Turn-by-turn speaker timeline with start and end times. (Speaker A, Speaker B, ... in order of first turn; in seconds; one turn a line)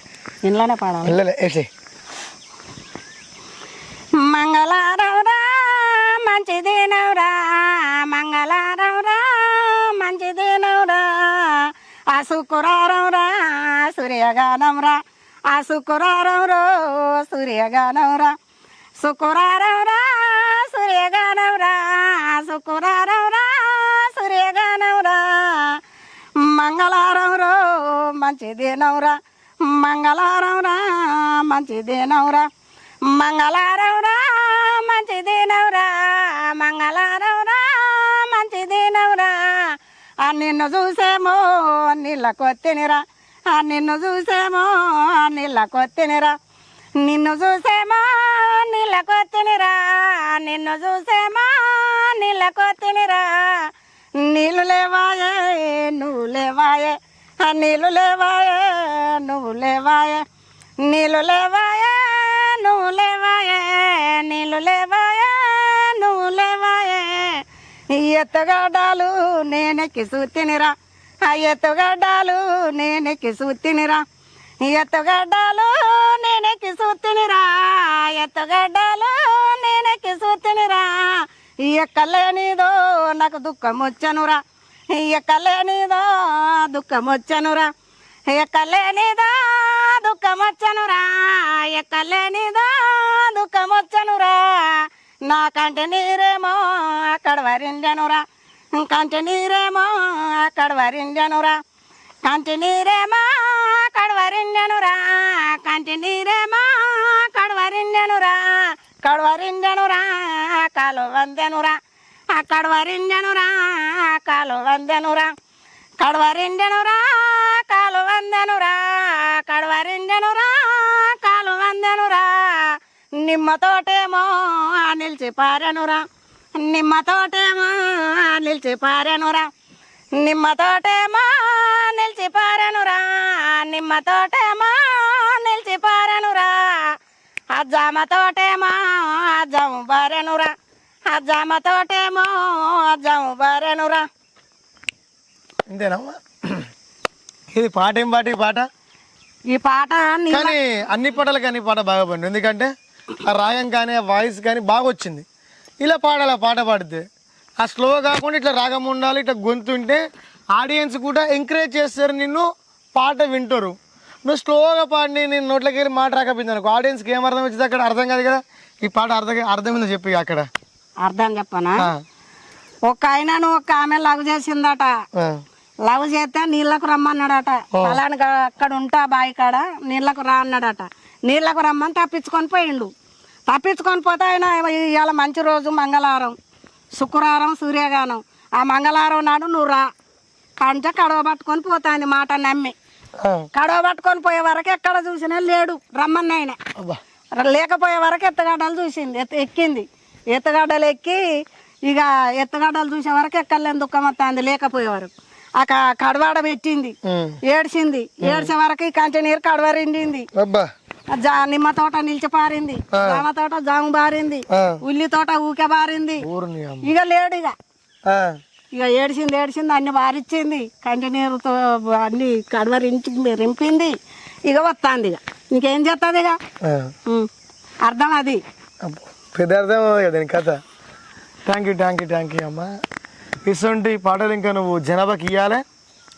Speaker A: 0.4-1.2
Speaker B: 1.0-1.7
Speaker A: 4.2-18.3
Speaker A: 19.0-25.8
Speaker A: 26.4-32.5
Speaker A: 33.0-46.3
Speaker A: 47.0-60.2
Speaker A: 60.8-74.0
Speaker A: 74.6-84.4
Speaker A: 84.9-87.7
Speaker A: 88.3-101.5
Speaker A: 102.2-111.8
Speaker A: 112.3-115.3
Speaker A: 116.0-126.0
Speaker A: 126.6-129.5
Speaker A: 130.2-137.0
Speaker A: 137.5-140.5
Speaker A: 141.1-144.0
Speaker B: 145.7-146.6
Speaker B: 147.5-148.7
Speaker A: 149.5-150.6
Speaker B: 150.3-152.7
Speaker B: 153.2-155.2
Speaker B: 155.8-157.0
Speaker B: 157.6-160.0
Speaker B: 160.5-163.7
Speaker B: 164.2-170.4
Speaker A: 171.0-171.9
Speaker A: 172.9-174.9
Speaker B: 175.1-175.4
Speaker A: 175.8-182.9
Speaker A: 183.5-186.3
Speaker A: 186.9-189.9
Speaker A: 190.6-192.7
Speaker B: 193.2-193.5
Speaker A: 193.5-196.6
Speaker A: 197.3-201.2
Speaker A: 201.8-206.9
Speaker B: 207.0-207.4
Speaker A: 207.5-210.3
Speaker B: 208.2-208.5
Speaker B: 210.3-210.7
Speaker A: 211.1-216.2
Speaker B: 212.9-213.2
Speaker B: 214.5-214.8
Speaker B: 216.2-216.9
Speaker A: 216.8-217.5
Speaker B: 218.1-218.4
Speaker A: 218.7-226.4
Speaker B: 226.6-226.9
Speaker A: 227.8-228.4
Speaker B: 228.8-230.6
Speaker B: 231.4-232.7
Speaker B: 233.4-235.6